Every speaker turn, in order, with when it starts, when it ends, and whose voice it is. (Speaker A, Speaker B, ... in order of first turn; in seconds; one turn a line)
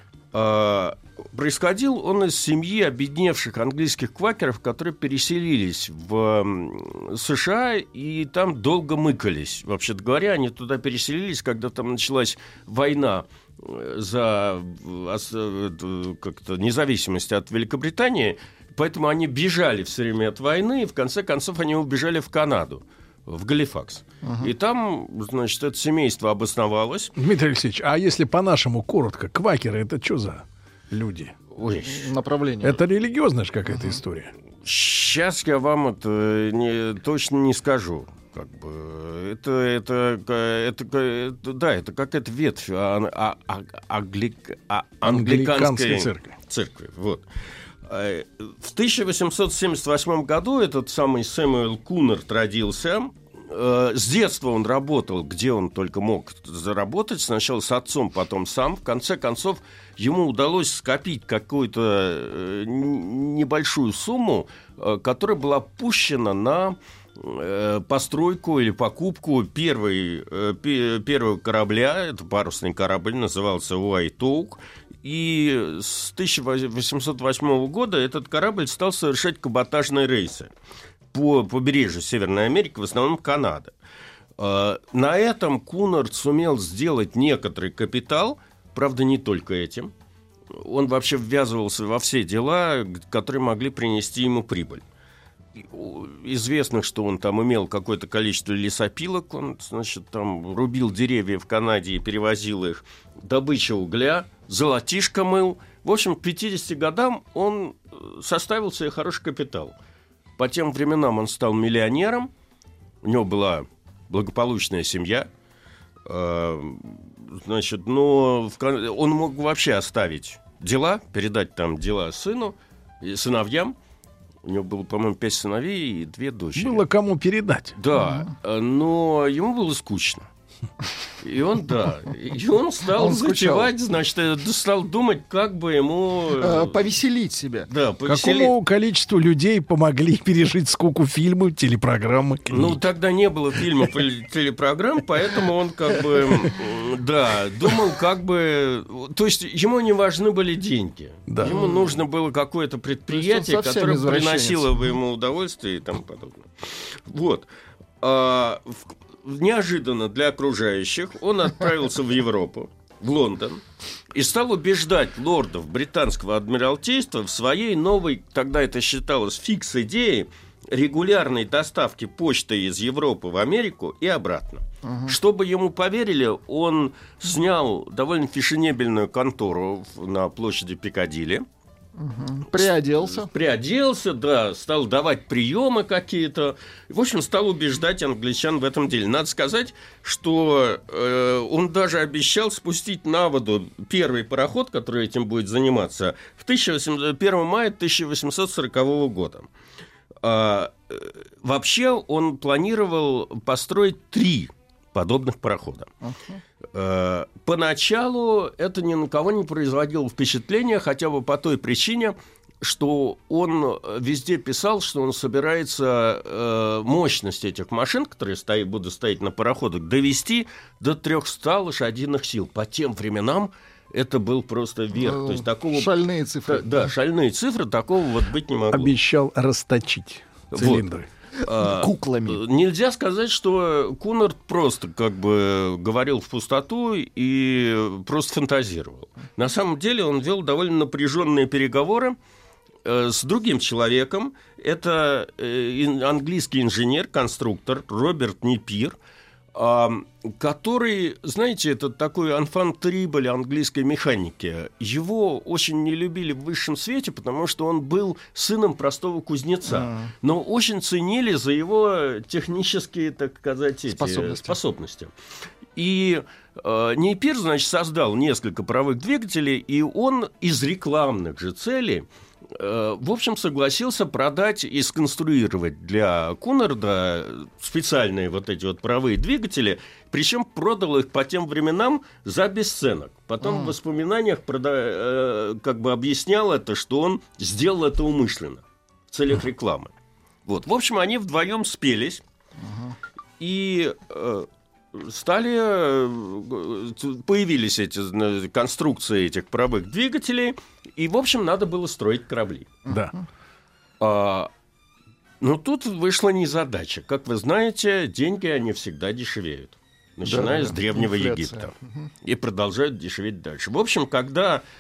Speaker A: 0.3-27.1
Speaker B: 24.2-24.5
Speaker C: 27.1-31.3
Speaker A: 31.5-32.1
Speaker B: 31.8-32.8
Speaker C: 32.6-34.3
Speaker A: 34.6-47.2
Speaker C: 45.0-46.3
Speaker A: 47.9-80.5
Speaker A: 81.1-83.7
Speaker A: 84.4-89.9
Speaker A: 90.5-94.8
Speaker A: 95.6-109.8
Speaker A: 110.4-112.3
Speaker A: 113.0-115.3
Speaker A: 116.1-123.8
Speaker A: 124.4-126.8
Speaker C: 126.6-127.8
Speaker A: 127.8-130.2
Speaker A: 131.2-136.8
Speaker B: 133.0-133.7
Speaker B: 136.4-137.7
Speaker A: 137.7-138.5
Speaker C: 138.1-142.8
Speaker A: 142.5-157.5
Speaker C: 151.3-151.6
Speaker B: 151.4-151.9
Speaker B: 153.1-154.9
Speaker A: 158.0-163.6
Speaker A: 164.1-181.4
Speaker B: 174.8-175.2
Speaker B: 182.0-183.3
Speaker A: 182.6-199.5
Speaker A: 200.2-205.9
Speaker B: 206.0-206.4
Speaker A: 206.7-225.9
Speaker B: 225.0-226.9
Speaker A: 226.5-228.9
Speaker C: 228.7-231.1
Speaker A: 230.5-230.8
Speaker A: 231.4-242.2
Speaker B: 231.4-232.4
Speaker A: 242.8-248.9
Speaker A: 249.5-265.1
Speaker B: 259.7-260.1
Speaker B: 263.9-264.6
Speaker A: 265.8-289.9
Speaker B: 283.4-283.7
Speaker A: 290.5-292.2
Speaker B: 292.6-292.9
Speaker A: 293.4-302.7
Speaker C: 302.9-303.1
Speaker A: 304.0-304.5
Speaker A: 305.4-311.7
Speaker B: 310.2-312.1
Speaker A: 312.2-314.6